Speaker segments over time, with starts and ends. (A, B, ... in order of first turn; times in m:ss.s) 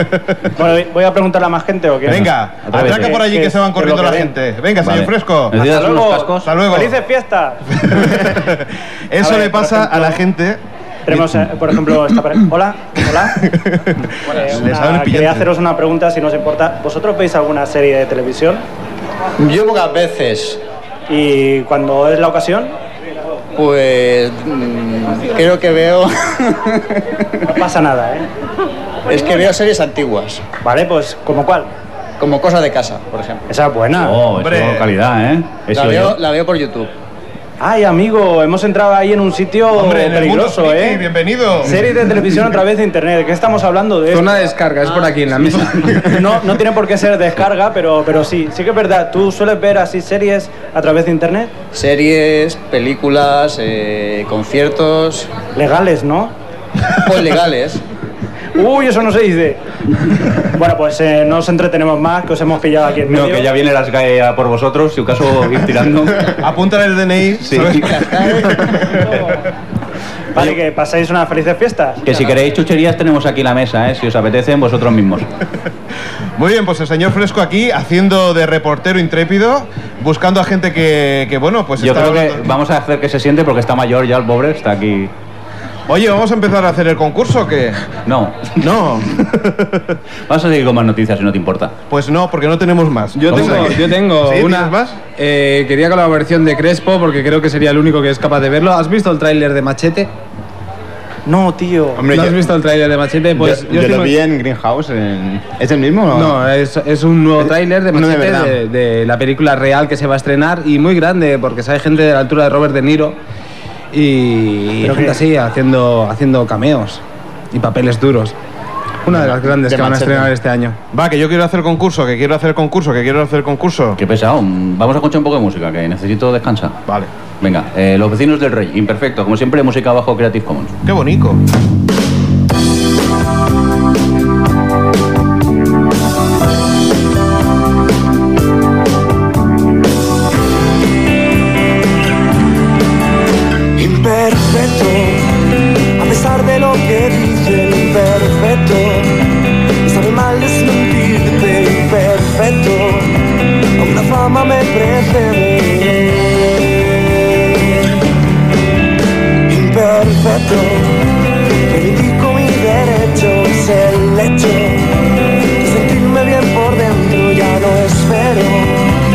0:00.6-0:04.3 A
0:02.1-0:05.6 B
0:02.7-0:03.2 C
0:04.8-0:06.5 C
0:05.5-0:08.4 A
0:06.4-0:06.9 B
0:07.8-0:11.4 B
0:09.2-0:10.2 A
0:11.1-0:13.5 A
0:13.4-0:15.5 B
0:14.3-0:18.6 A
0:19.4-0:20.6 D
0:21.1-0:22.7 A
0:23.6-0:27.2 D
0:27.5-0:28.3 A
0:29.1-0:30.4 D
0:30.6-0:31.7 A
0:32.2-0:33.4 D
0:33.5-0:34.2 A
0:34.0-0:36.2 C
0:34.4-0:34.9 B
0:35.7-0:36.9 D
0:37.6-0:41.0 A
0:39.7-0:41.9 B
0:41.6-0:44.4 A
0:44.1-0:46.4 E
0:46.0-0:51.6 A
0:51.7-0:55.3 D
0:55.6-0:56.3 A
0:57.0-0:57.8 D
0:58.6-1:03.5 A
1:03.0-1:06.4 C
1:06.4-1:09.2 B
1:07.5-1:08.5 C
1:10.3-1:12.1 A
1:12.0-1:15.3 C
1:16.4-1:22.5 B
1:21.8-1:25.1 C
1:25.9-1:27.8 B
1:28.1-1:28.6 C
1:28.6-1:30.0 B
1:30.3-1:31.7 C
1:31.9-1:35.0 B
1:33.2-1:40.1 E
1:33.3-1:33.7 C
1:41.3-1:42.1 A
1:42.0-1:42.5 F
1:42.1-1:44.1 E
1:43.4-1:46.4 F
1:46.1-1:53.2 E
1:47.4-1:48.6 F
1:53.9-1:57.0 E
1:54.8-1:55.2 A
1:57.5-1:58.4 E
1:59.0-2:00.8 E
1:59.2-2:00.3 F
2:00.9-2:04.0 B
2:04.0-2:06.8 C
2:07.4-2:10.8 C
2:10.9-2:11.4 B
2:23.8-2:25.3 G
2:26.0-2:29.3 G
2:29.8-2:33.2 G
2:33.8-2:37.0 G
2:39.5-2:41.0 G
2:41.7-2:45.0 G
2:45.6-2:48.9 G